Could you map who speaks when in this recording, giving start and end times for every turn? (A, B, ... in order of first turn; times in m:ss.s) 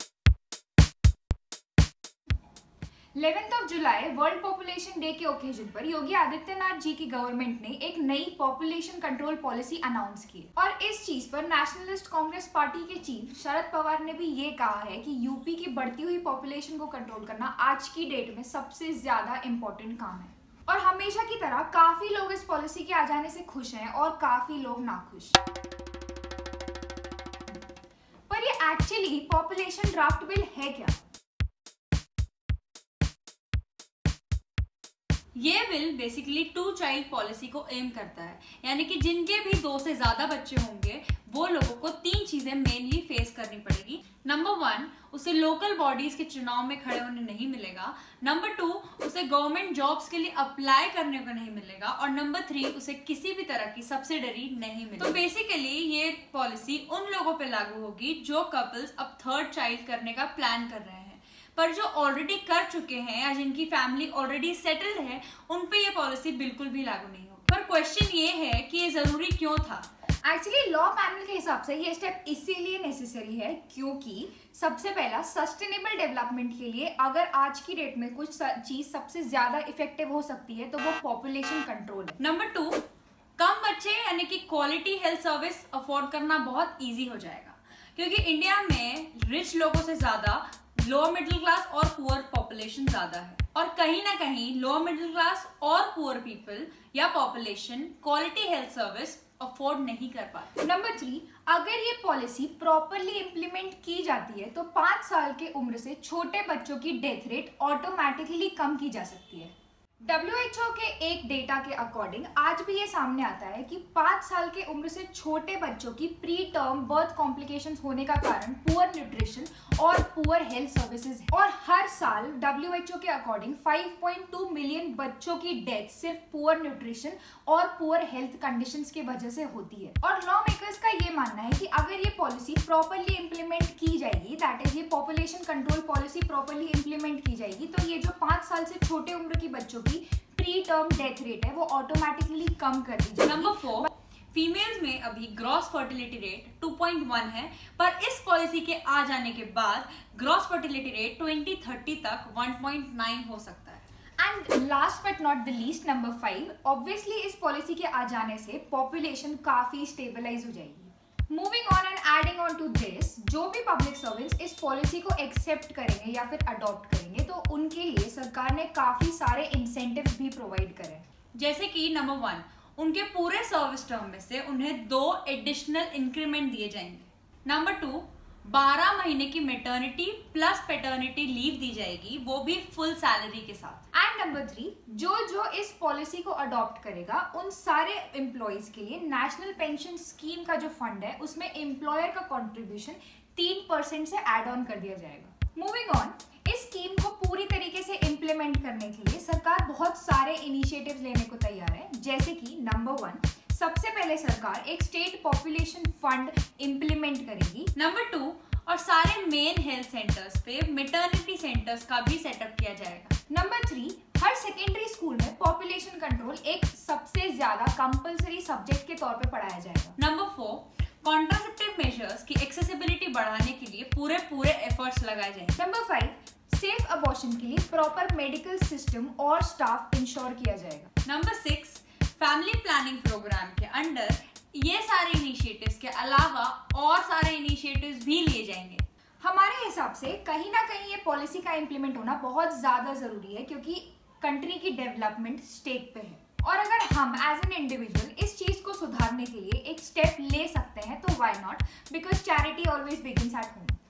0:03.1-0:25.4 A
0:28.3-0:31.0 A
0:35.3-1:09.9 B
1:10.2-1:22.2 A
1:22.2-1:22.8 B
1:23.4-1:40.5 B
1:40.6-1:49.5 A
1:50.1-2:23.8 A
2:23.2-2:33.8 B
2:34.2-2:51.0 A
2:51.4-3:03.8 B
3:03.9-3:27.7 A
3:27.7-3:33.1 B
3:33.3-3:40.0 A
3:40.0-3:45.6 B
3:45.6-3:50.9 A
3:51.0-3:58.8 B
3:59.2-4:13.8 A